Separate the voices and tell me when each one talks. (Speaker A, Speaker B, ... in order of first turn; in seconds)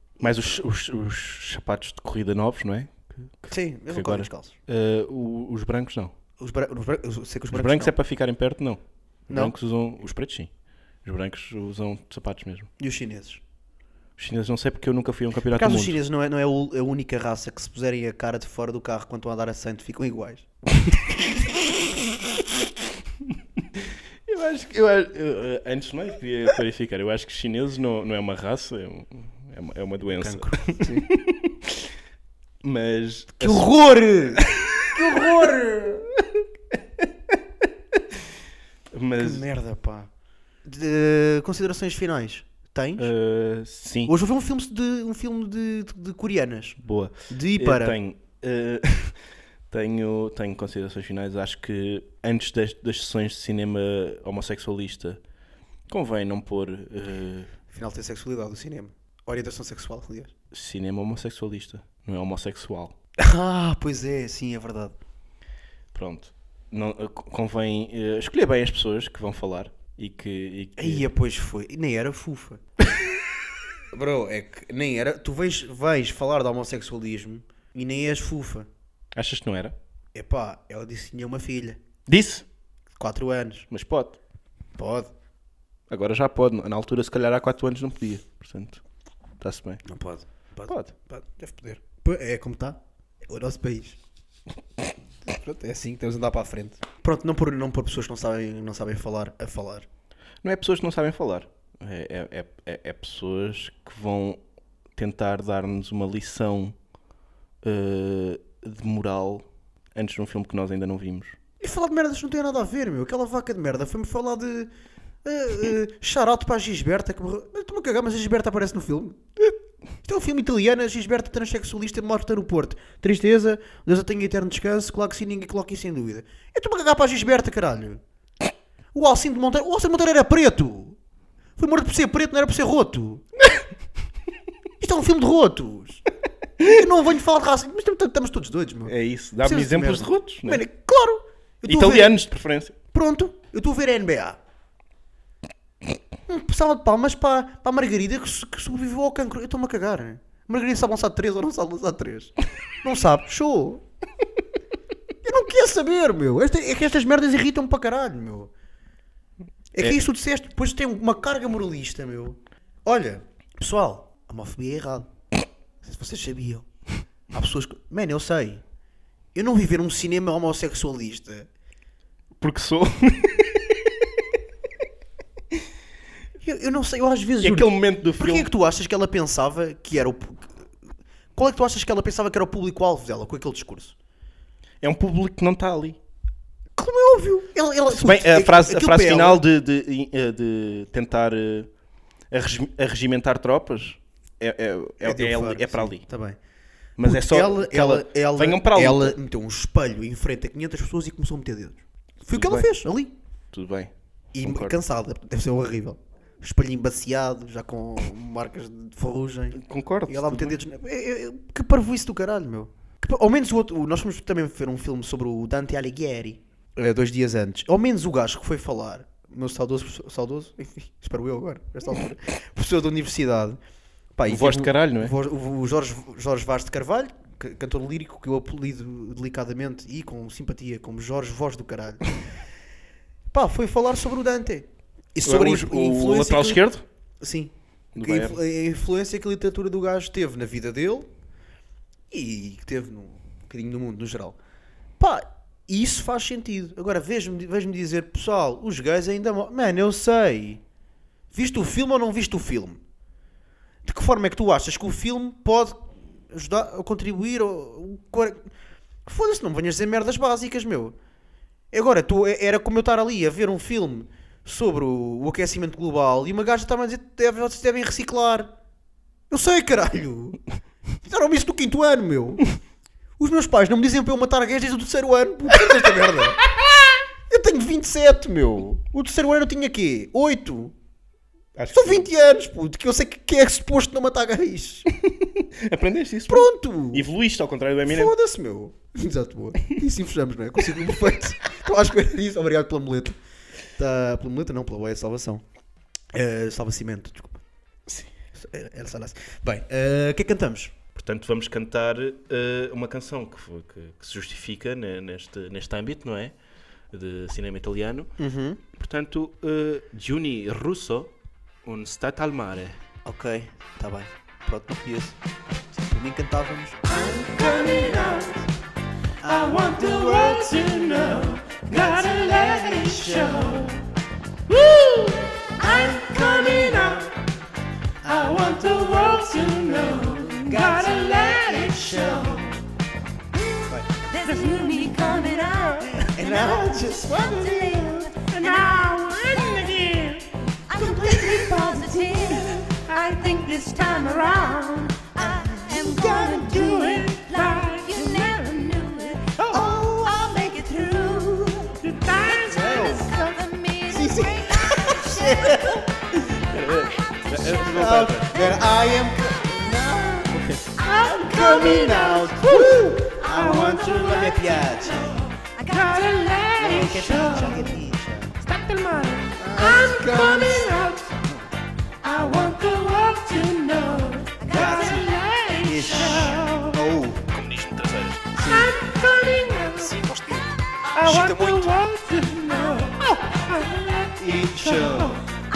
Speaker A: 0.2-6.1, 7.5-12.7, 14.2-16.0, 24.3-31.9, 32.6-33.7, 34.3-34.9, 37.0-37.4, 38.9-39.5, 43.0-44.1, 46.8-49.2, 49.7-55.2, 55.9-57.5, 60.5-63.0, 65.9-71.1, 79.2-79.8, 82.1-82.5, 83.7-84.2, 85.9-88.8, 89.4-89.8, 90.7-90.9, 100.4-104.4, 105.0-106.8, 107.6-111.4, 138.9-140.6, 141.7-142.8, 172.4-173.9, 177.4-178.5, 184.8-186.0, 187.9-191.7, 192.3-196.0, 197.0-199.2, 202.3-202.7, 203.5-204.8, 209.5-210.6, 224.3-225.1, 235.2-236.8, 237.9-238.4, 281.6-282.1, 285.0-288.1, 300.9-306.4, 306.9-308.2, 308.7-311.1, 311.6-312.8, 356.5-358.5, 360.3-360.8, 377.3-378.4
Speaker B: 3.5-4.5, 6.4-7.9, 9.3-9.5, 12.8-13.4, 15.5-21.0, 30.1-31.1, 33.4-36.1, 39.2-40.1, 40.6-43.1, 44.1-48.0, 57.7-60.3, 63.2-65.0, 70.8-72.6, 73.9-78.7, 80.1-81.8, 83.0-83.7, 84.8-85.1, 89.8-94.0, 95.2-99.9, 111.6-114.7, 115.2-128.0, 128.9-131.0, 131.6-133.2, 134.8-136.0, 136.6-142.2, 142.9-144.4, 146.3-153.8, 155.2-158.5, 159.7-165.1, 165.8-166.7, 167.3-168.6, 169.3-171.5, 176.4-180.5, 181.4-183.9, 186.8-189.4, 195.0-196.4, 197.0-203.2, 204.3-223.6, 224.2-232.2, 233.3-236.6, 237.2-241.1, 242.1-244.4, 245.0-250.6, 251.3-252.8, 253.8-258.5, 259.1-261.0, 261.7-268.5, 269.3-270.4, 271.0-272.4, 273.2-276.4, 277.3-280.8, 281.7-284.9, 286.3-287.1, 287.9-293.2, 293.8-295.4, 296.1-297.4, 298.4-300.8, 308.2-308.6, 313.1-315.2, 315.7-318.5, 319.2-323.8, 325.6-327.2, 328.0-332.6, 335.9-338.1, 340.8-342.6, 345.2-347.1, 349.5-350.6, 352.3-353.2, 353.9-356.2, 357.6-365.3, 366.6-368.4, 369.4-371.3, 372.1-372.6, 374.4-377.3, 378.4-378.9, 379.6-381.8, 384.2-385.2
Speaker C: 317.5-318.1, 319.6-320.4, 322.1-322.6, 324.6-326.7, 328.5-332.4, 334.1-336.6, 337.2-355.8, 360.8-367.7, 368.5-371.1, 372.1-376.8, 378.5-379.8, 380.9-385.2